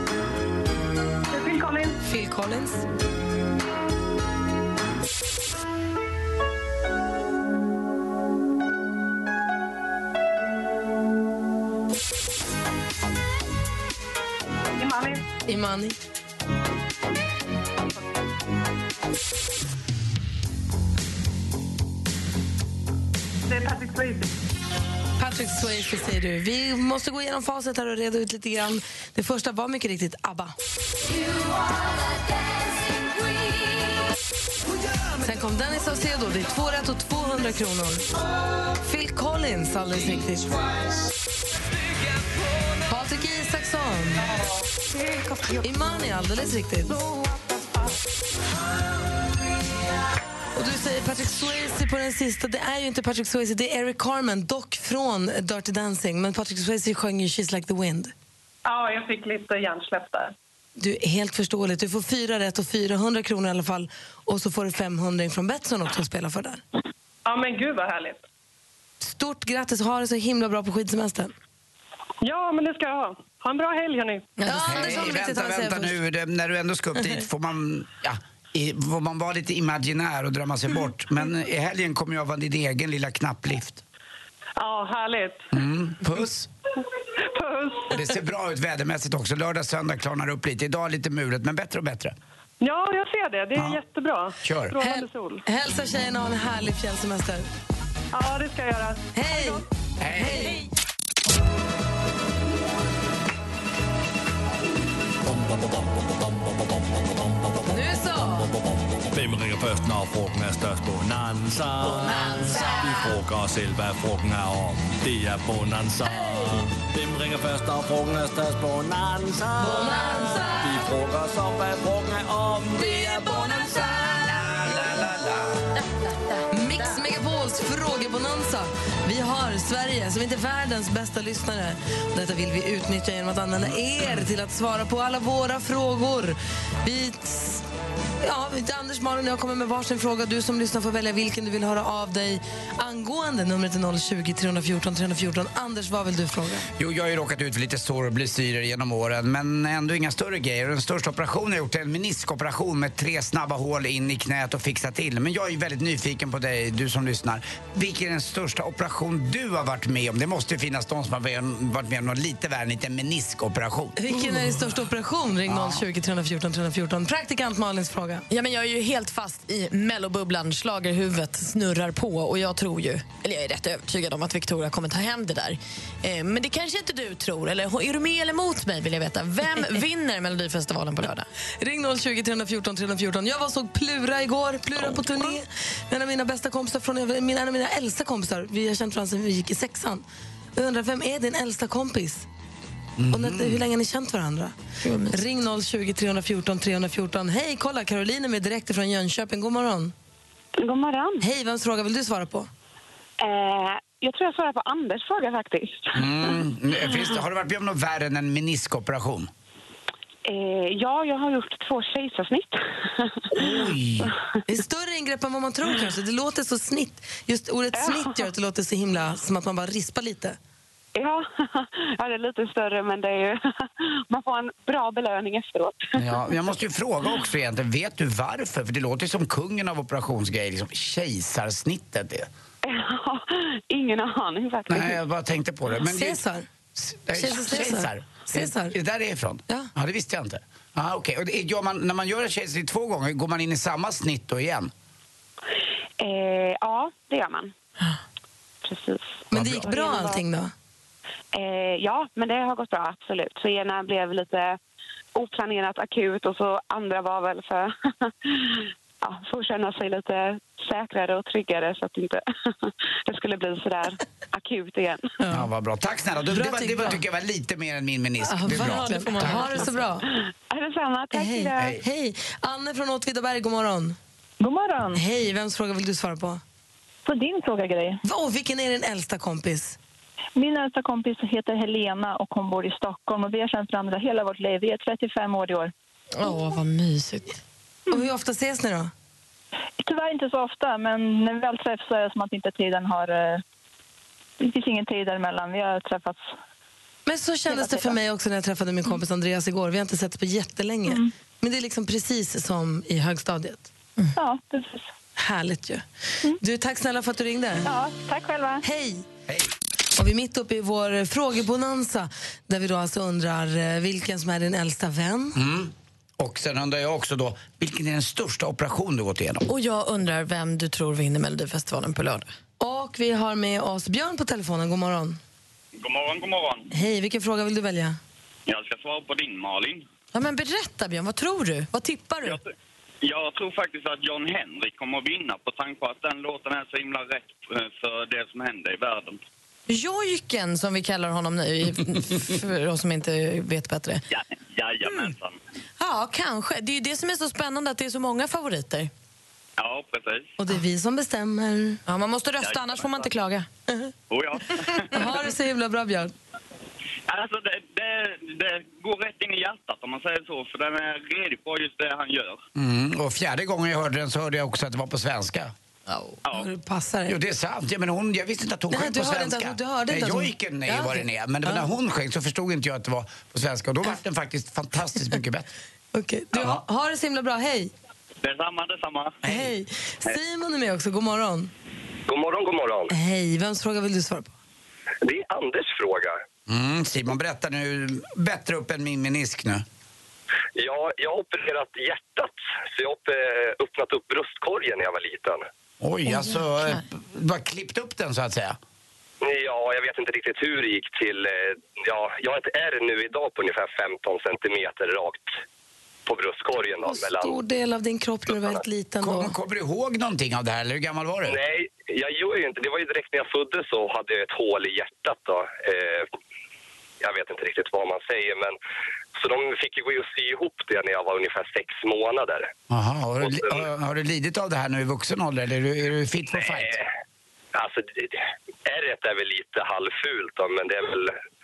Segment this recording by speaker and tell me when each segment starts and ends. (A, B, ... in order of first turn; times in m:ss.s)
0:01.3-0:02.0 A
0:02.0-0:02.8 B
0:14.8-0:15.2 A
0:15.4-0:16.0 B
0:23.5-0:24.3 A
0:25.2-0:30.5 B
0:35.2-0:38.1 B
0:38.8-0:40.6 B
0:42.9-0:44.3 B
0:45.6-0:47.0 B
0:50.5-0:58.1 B
0:58.6-1:00.3 A
1:00.8-1:06.6 B
1:07.2-1:08.2 A
1:09.0-1:11.3 B
1:12.2-1:14.3 A
1:14.4-1:16.0 B
1:14.5-1:23.8 C
1:24.6-1:25.5 A
1:25.5-1:26.5 C
1:27.3-1:27.9 A
1:27.9-1:32.1 C
1:32.6-1:35.4 A
1:33.5-1:33.8 C
1:34.4-1:34.8 C
1:34.8-1:37.5 B
1:38.1-1:39.6 A
1:39.1-1:39.6 B
1:40.0-1:40.6 C
1:40.1-1:40.6 B
1:47.7-1:48.5 B
1:49.1-2:03.8 D
1:51.9-1:52.8 B
1:59.6-2:00.8 B
2:03.6-2:05.6 C
2:06.5-2:17.6 B
2:18.2-2:26.7 B
2:26.8-2:44.0 C
2:44.0-2:48.2 B
2:45.5-2:45.8 C
2:48.3-3:01.3 E
3:01.6-3:10.0 B
3:10.6-3:12.2 B
3:13.0-3:13.6 C
3:13.1-3:14.5 B
3:14.8-3:15.2 E
3:15.1-3:19.9 B
3:20.6-3:21.2 F
3:21.2-3:22.5 B
3:23.2-3:26.4 F
3:25.9-3:29.3 C
3:30.2-3:33.5 F
3:33.3-3:34.1 C
3:34.5-3:40.4 B
3:37.7-3:38.2 F
3:40.9-3:46.2 F
3:46.0-3:52.3 C
3:52.6-3:55.0 F
3:54.7-3:56.2 C
3:55.8-3:56.5 B
3:56.8-4:04.7 C
3:57.1-3:58.7 B
4:06.0-4:07.5 F
4:08.6-4:10.2 F
4:09.3-4:10.5 B
4:09.3-4:09.7 C
4:11.3-4:14.6 F
4:15.1-4:25.1 F
4:25.2-4:25.5 B
4:25.3-4:29.5 C
4:26.3-4:27.0 B
4:28.2-4:30.0 B
4:28.6-4:29.8 E
4:30.1-4:31.7 F
4:31.1-4:34.0 B
4:34.4-4:35.0 G
4:34.9-4:36.4 B
4:37.0-4:38.0 G
4:38.0-4:39.8 B
4:40.4-4:45.7 G
4:46.2-4:47.4 E
4:47.9-4:48.9 B
4:49.8-4:53.4 G
4:54.4-4:56.3 G
4:57.1-5:03.7 B
4:57.5-4:57.9 G
5:04.1-5:04.9 G
5:05.2-5:05.8 B
5:06.4-5:07.7 B
5:07.6-5:08.6 G
5:08.6-5:09.0 B
5:10.0-5:15.4 B
5:15.3-5:19.4 C
5:19.5-5:22.3 E
5:22.6-5:25.2 B
5:25.8-5:26.7 H
5:26.7-5:28.0 B
5:28.5-5:29.8 H
5:30.1-5:32.4 E
5:32.2-5:32.5 H
5:33.0-5:39.2 H
5:39.7-5:44.0 E
5:44.1-5:45.4 H
5:45.8-5:48.9 E
5:49.6-5:50.3 H
5:50.4-5:51.8 B
5:51.9-5:53.5 E
5:52.4-5:53.1 H
5:54.1-5:55.1 H
5:54.9-5:56.1 B
5:57.1-6:02.4 H
6:02.6-6:05.5 C
6:06.3-6:07.2 B
6:07.1-6:15.5 C
6:08.7-6:11.7 B
6:15.9-6:17.7 B
6:16.3-6:16.6 C
6:18.2-6:19.2 H
6:19.2-6:21.5 B
6:22.1-6:22.9 I
6:22.9-6:24.3 B
6:25.0-6:26.2 I
6:26.5-6:29.6 C
6:30.6-6:35.4 I
6:35.8-6:38.6 C
6:36.1-6:36.4 E
6:39.2-6:45.3 I
6:46.1-6:47.4 I
6:46.8-6:49.3 B
6:49.0-6:51.4 C
6:51.3-6:56.1 I
6:57.0-6:58.6 I
6:59.2-7:02.5 I
7:02.7-7:06.8 C
7:07.5-7:11.1 I